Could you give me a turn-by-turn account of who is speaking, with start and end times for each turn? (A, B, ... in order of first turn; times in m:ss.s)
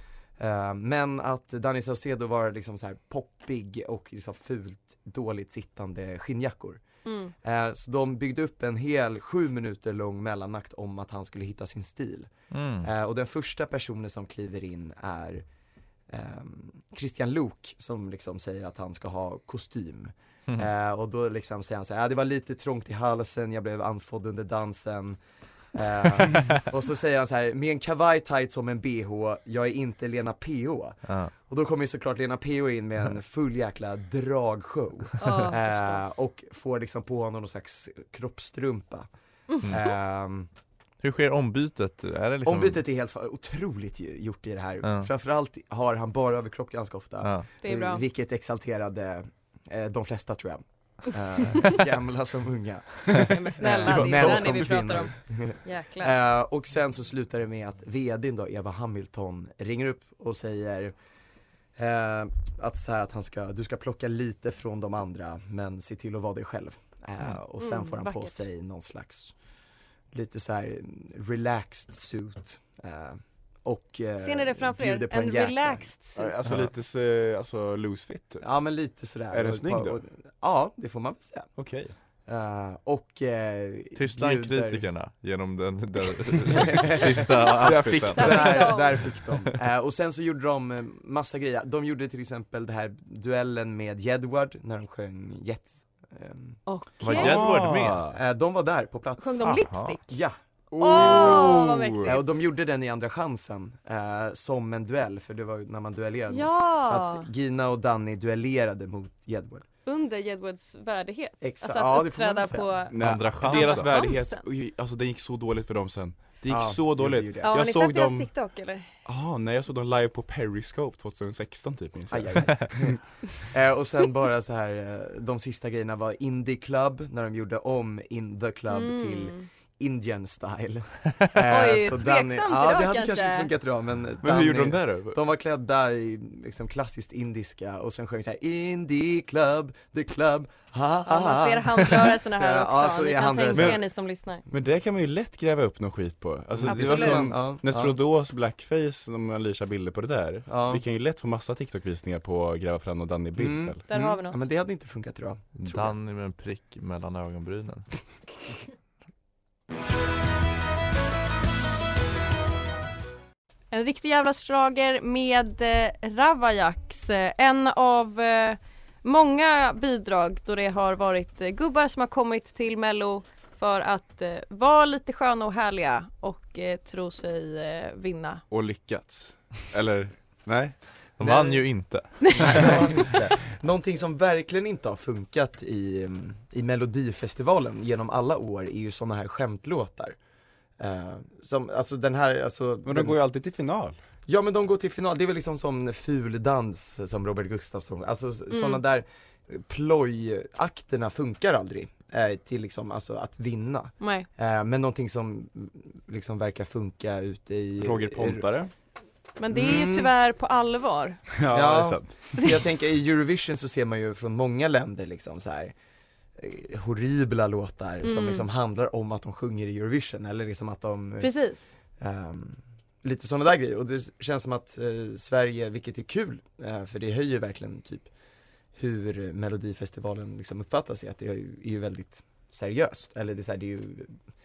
0:00.4-0:06.8 A
0:07.0-0:07.3 B
0:07.4-0:12.3 A
0:12.5-0:12.9 C
0:12.8-0:15.4 A
0:16.1-0:25.2 A
0:25.7-0:39.1 A
0:31.1-0:31.3 C
0:35.2-0:36.1 B
0:39.5-0:39.9 B
0:39.6-0:40.5 A
0:41.0-0:42.8 C
0:42.4-1:00.9 A
0:44.8-0:45.1 C
0:47.6-0:48.0 B
0:53.2-0:56.1 B
0:53.7-0:55.0 D
1:01.8-1:09.3 A
1:07.6-1:08.4 B
1:10.1-1:15.9 A
1:14.2-1:16.4 B
1:16.2-1:18.4 D
1:18.4-1:21.5 A
1:19.3-1:20.0 D
1:21.6-1:21.9 D
1:22.3-1:24.8 A
1:24.0-1:28.6 C
1:26.4-1:36.6 A
1:27.6-1:28.5 D
1:28.1-1:29.0 B
1:36.7-1:37.4 B
1:37.0-1:38.0 C
1:37.0-1:38.2 D
1:38.1-1:40.4 A
1:39.2-1:40.0 B
1:39.4-1:40.0 C
1:40.7-1:42.1 D
1:40.8-1:42.4 B
1:40.9-1:49.7 A
1:46.3-1:47.3 B
1:49.9-1:54.4 B
1:51.4-1:52.9 A
1:52.9-1:58.3 D
1:53.0-1:53.9 C
1:56.5-1:57.5 A
1:57.4-1:58.9 B
1:59.0-2:03.0 D
2:02.1-2:23.8 A
2:08.7-2:09.5 B
2:11.5-2:13.5 B
2:14.2-2:15.2 D
2:21.1-2:24.4 B
2:23.6-2:23.8 D
2:24.5-2:33.8 D
2:26.5-2:28.0 A
2:26.7-2:27.3 B
2:30.5-2:30.8 A
2:33.4-2:36.0 A
2:33.9-2:34.4 B
2:35.6-2:37.9 C
2:43.7-2:58.4 B
2:58.5-3:00.8 D
3:01.2-3:03.0 C
3:01.2-3:01.7 A
3:02.2-3:10.2 A
3:10.8-3:13.2 A
3:12.8-3:14.0 D
3:14.3-3:28.4 A
3:18.5-3:18.8 B
3:24.0-3:24.3 B
3:27.8-3:28.7 D
3:29.4-3:31.2 B
3:29.5-3:30.1 A
3:31.4-3:32.2 D
3:31.5-3:35.7 A
3:36.4-3:41.3 A
3:38.0-3:38.5 B
3:41.2-3:41.8 B
3:42.0-3:48.1 A
3:48.8-3:54.1 A